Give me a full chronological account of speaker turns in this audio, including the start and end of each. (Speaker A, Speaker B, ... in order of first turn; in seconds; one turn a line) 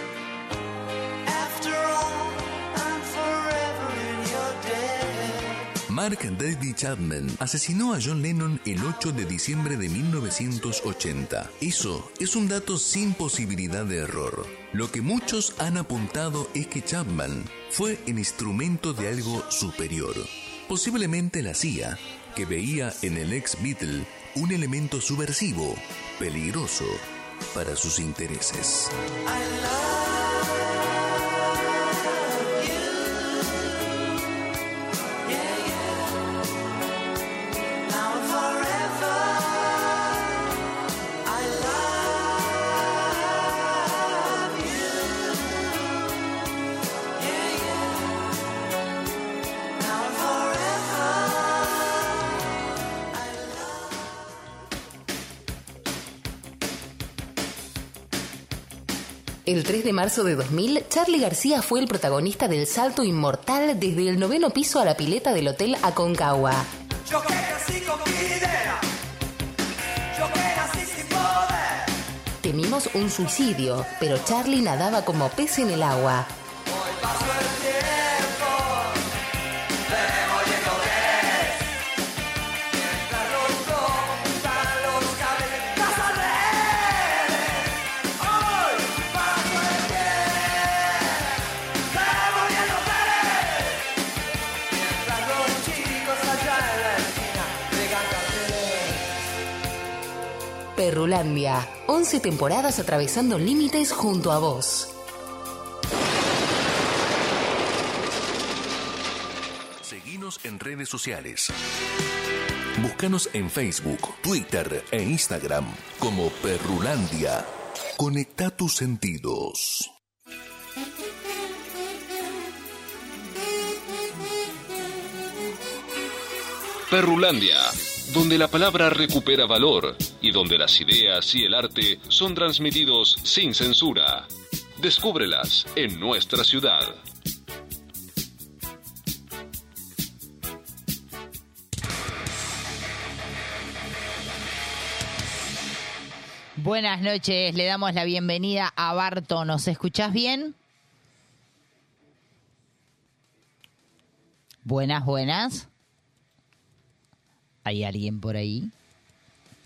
Speaker A: 1.2-5.7
Speaker B: 5.9-28.9
Speaker A: 29.2-30.9
Speaker A: 31.6-34.0
Speaker A: 35.2-36.3
Speaker A: 37.8-40.3
Speaker A: 41.2-45.8
Speaker A: 47.1-48.3
Speaker A: 49.8-52.1
Speaker A: 53.1-54.1
Speaker C: 59.4-66.7
Speaker A: 67.0-68.8
Speaker A: 70.1-71.9
Speaker C: 72.4-76.3
Speaker A: 76.7-78.9
Speaker A: 79.9-81.7
Speaker A: 82.8-91.2
Speaker A: 91.9-93.8
Speaker A: 94.7-99.0
Speaker C: 100.8-104.9
Speaker B: 109.8-111.5
Speaker B: 112.8-119.9
Speaker D: 126.9-137.0
Speaker E: 146.6-150.5
Speaker E: 154.6-155.7
Speaker E: 157.6-158.7